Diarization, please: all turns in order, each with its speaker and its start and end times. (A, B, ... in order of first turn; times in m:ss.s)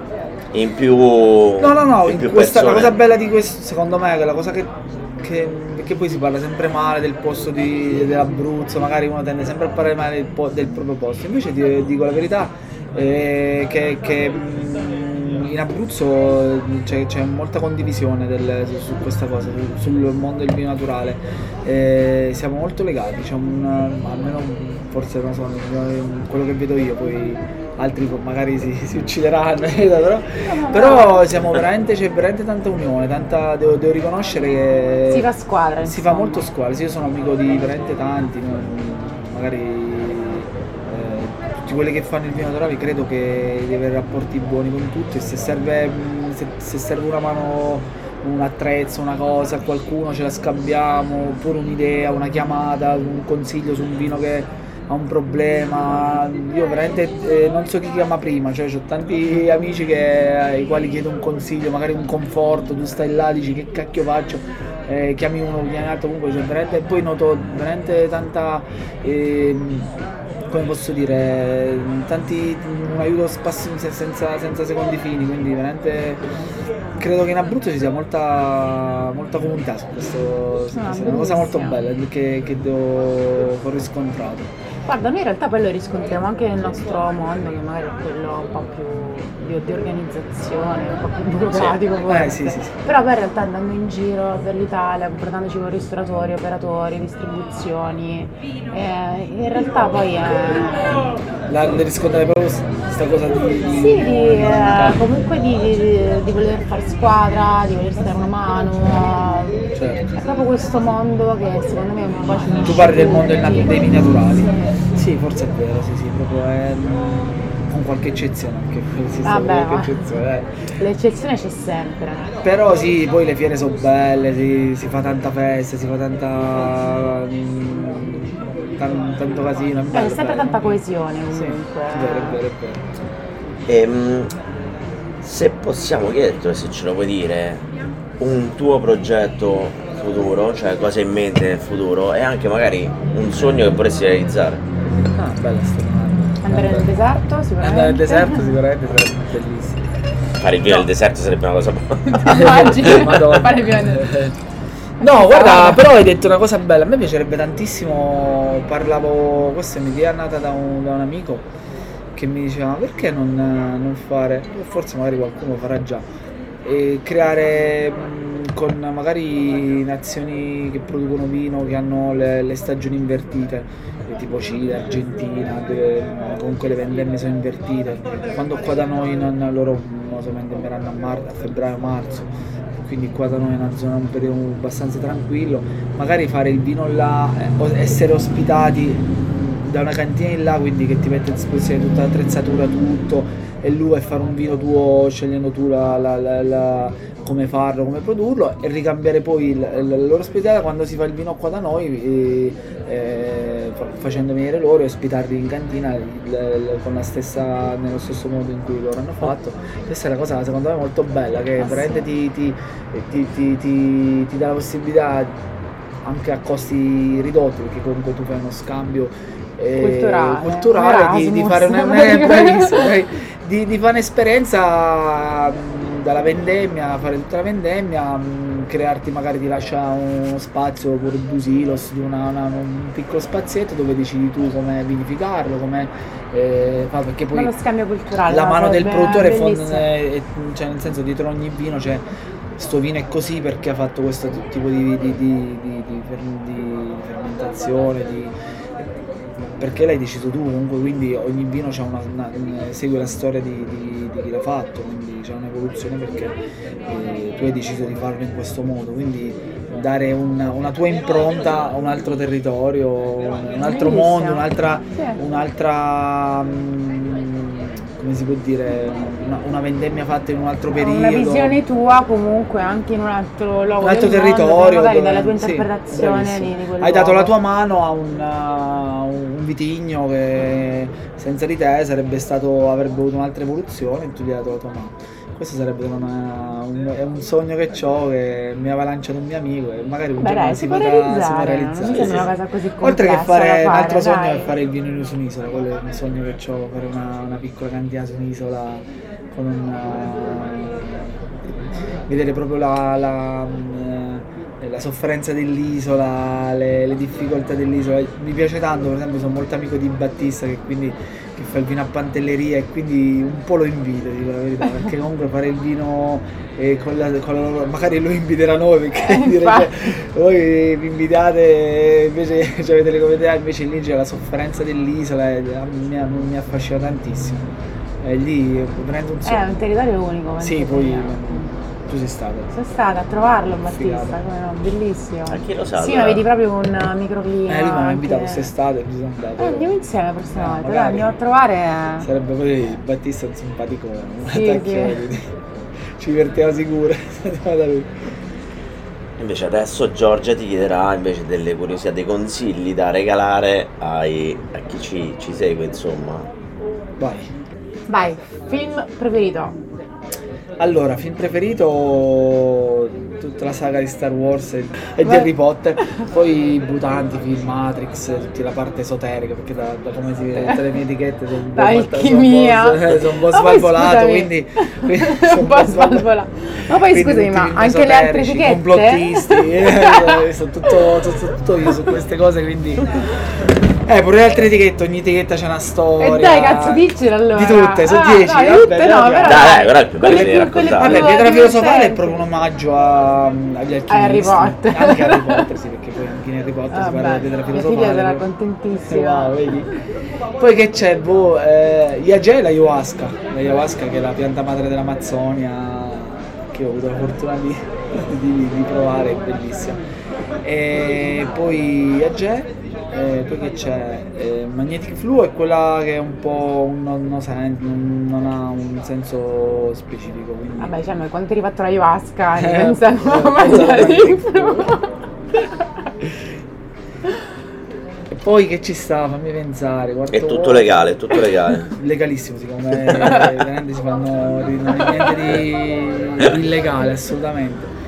0:00.5-0:02.9 A
0:01.6-0:35.3 B
0:30.4-0:31.2 C
0:35.1-0:36.5 C
0:35.9-1:16.2 B
1:17.0-1:24.5 B
1:20.7-1:21.8 C
1:24.9-1:41.1 C
1:32.1-1:32.8 B
1:41.5-1:45.0 B
1:43.7-1:54.7 C
1:49.8-1:50.0 B
1:52.6-2:00.5 B
1:59.2-2:00.0 C
2:00.8-2:02.3 C
2:02.4-2:10.8 B
2:09.9-2:12.4 C
2:11.3-2:12.9 B
2:13.7-2:14.4 A
2:15.2-2:17.7 A
2:18.2-2:24.6 A
2:24.9-2:26.9 B
2:26.4-2:28.4 C
2:27.6-2:29.8 B
2:30.4-2:32.3 A
2:32.1-2:34.1 C
2:32.2-2:34.4 B
2:35.0-2:41.5 B
2:35.0-2:35.8 C
2:42.1-2:46.1 B
2:46.6-3:35.4 B
3:31.6-3:32.0 C
3:36.0-3:57.5 B
3:39.8-3:42.9 C
3:57.3-3:59.9 C
3:58.3-4:02.0 B
4:02.6-4:08.9 B
4:09.6-4:16.4 B
4:16.9-4:31.6 B
4:23.6-4:25.2 C
4:30.8-4:37.3 C
4:33.8-4:52.3 B
4:50.2-4:54.5 C
4:51.9-4:52.3 A
4:52.8-5:01.6 B
5:02.1-5:29.6 B
5:19.0-5:19.7 C
5:29.2-5:31.5 C
5:30.4-5:32.5 B
5:32.5-5:38.5 C
5:33.7-5:34.2 B
5:35.3-5:36.2 A
5:37.5-5:39.7 B
5:39.4-5:42.1 C
5:40.3-5:41.2 B
5:42.0-5:45.3 B
5:44.3-5:45.0 C
5:45.9-5:48.0 B
5:49.2-5:56.3 A
5:57.0-5:57.3 B
5:57.9-5:59.6 C
6:00.6-6:38.2 B
6:05.0-6:05.3 C
6:11.6-6:20.2 C
6:26.0-6:32.2 C
6:29.2-6:31.1 A
6:33.9-6:35.5 C
6:36.7-6:39.5 C
6:38.9-6:39.7 B
6:40.4-6:49.8 B
6:50.4-7:00.7 B
7:00.6-7:04.9 C
7:02.4-7:04.7 B
7:08.1-7:10.7 B
7:10.1-7:11.7 A
7:11.7-7:17.7 B